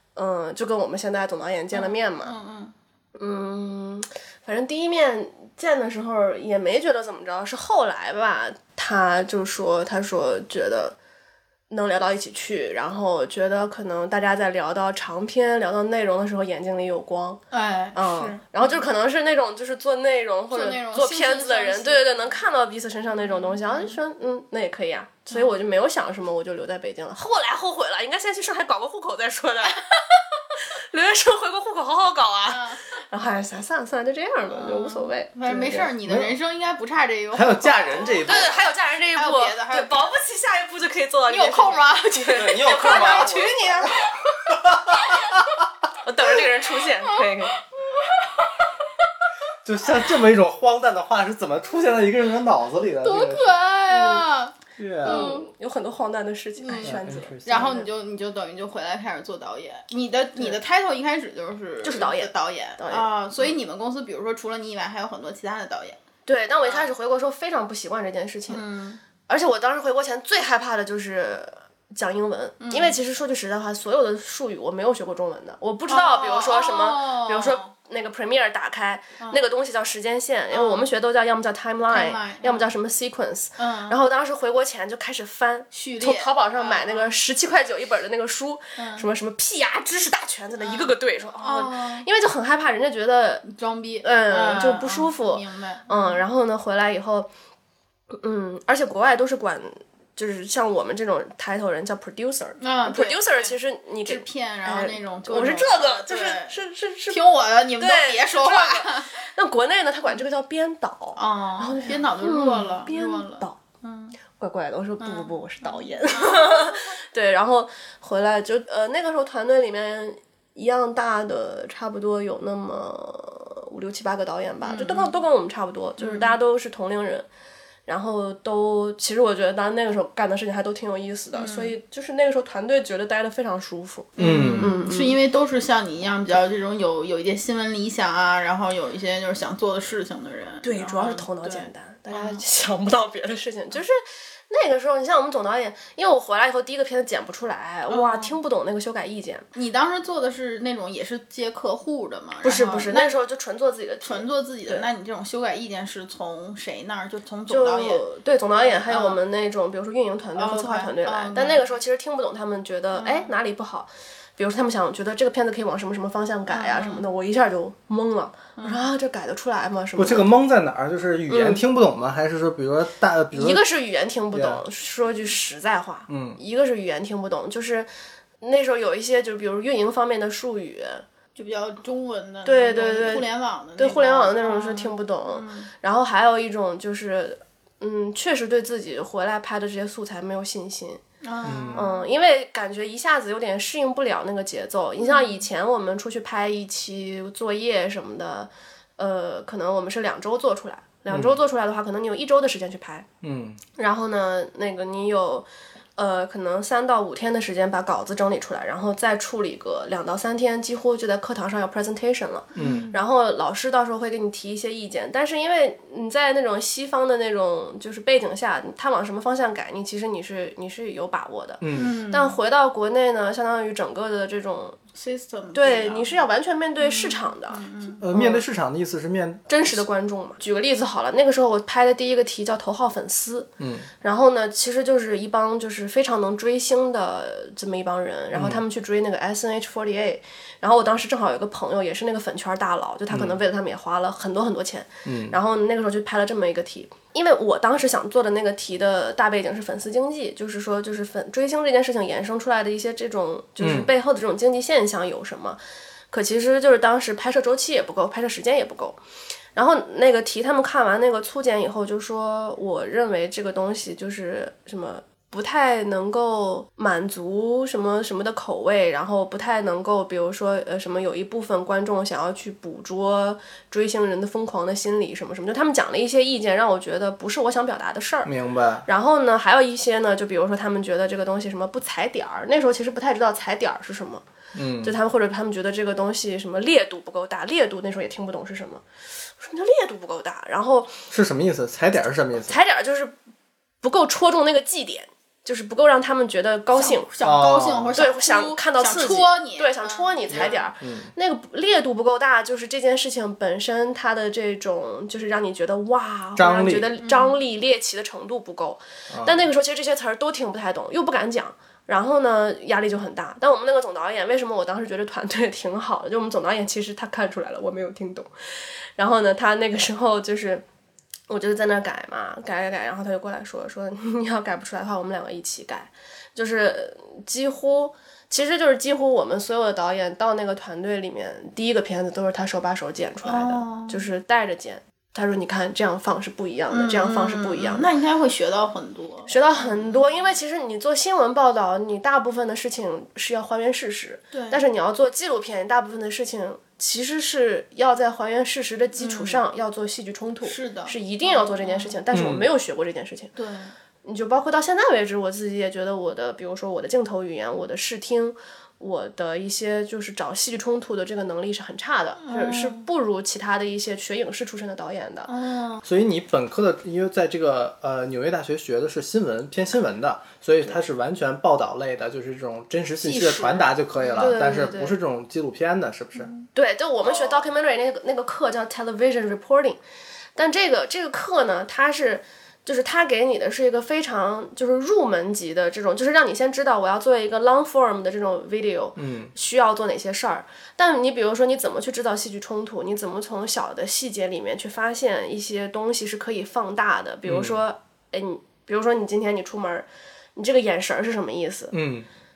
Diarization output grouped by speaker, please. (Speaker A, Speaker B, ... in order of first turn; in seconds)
Speaker A: 0.2-2.4, 3.2-11.0, 11.7-17.4, 17.9-29.9, 30.8-35.9, 38.2-44.0, 46.0-47.5, 53.9-54.2, 55.0-57.9, 61.8-63.1, 66.3-68.6, 69.3-93.5, 94.0-97.3, 98.1-107.2, 107.8-113.6, 114.4-127.3, 127.9-135.2, 140.6-149.5, 152.4-154.9, 157.5-170.3, 171.3-171.6, 173.3-177.9, 178.4-181.1, 182.4-191.0, 191.8-203.1, 203.8-224.8, 225.5-228.4, 229.5-233.5, 234.0-255.6, 256.1-259.0, 259.6-278.3, 278.9-284.2, 284.8-288.8, 289.4-291.0, 292.5-293.1, 293.8-297.1, 297.9-320.6, 321.3-337.9, 339.3-353.3, 354.0-365.3, 374.2-375.0, 376.6-379.8, 380.4-401.8
Speaker B: 1.7-2.7, 17.5-18.9, 20.5-22.4, 23.1-24.0, 25.3-25.6, 32.5-32.9, 34.5-40.0, 41.3-43.5, 47.0-48.5, 53.0-55.5, 56.6-66.0, 68.5-69.0, 72.6-73.0, 75.9-77.7, 80.5-80.9, 81.9-82.7, 83.6-84.0, 85.7-87.2, 88.8-89.1, 90.6-92.1, 93.5-96.2, 102.6-103.5, 104.1-106.6, 107.1-109.1, 111.2-114.2, 115.0-117.0, 124.6-125.2, 126.0-126.3, 131.3-131.7, 134.2-142.4, 147.9-148.4, 149.5-153.2, 154.0-158.0, 158.6-159.2, 160.4-161.7, 162.9-163.3, 166.5-167.1, 168.6-168.8, 181.4-185.7, 191.2-192.1, 195.0-195.4, 212.6-213.0, 221.7-222.4, 224.9-226.2, 226.8-228.0, 296.7-300.6, 307.0-307.4, 333.2-334.1, 336.7-340.3, 344.3-344.6, 349.0-349.4, 350.4-352.0, 353.4-353.7, 362.2-362.9, 365.3-365.8, 373.0-374.8, 376.2-376.4
Speaker C: 36.0-36.4, 37.3-38.5, 42.3-45.4, 49.6-53.6, 54.8-55.3, 56.8-57.8, 134.2-134.7, 170.0-173.6, 174.3-174.6, 176.1-176.4, 191.4-191.9, 201.1-201.4, 203.2-203.6, 212.6-212.9, 221.6-221.9, 228.0-229.8, 233.6-233.9, 238.3-238.6, 243.1-243.4, 245.1-245.4, 253.6-253.9, 278.2-278.9, 284.5-285.0, 291.1-292.6, 297.2-298.0, 300.3-301.1, 306.4-306.9, 309.1-309.4, 352.1-352.5, 365.8-376.3, 377.0-377.4, 389.0-389.3, 397.3-397.6, 401.7-402.1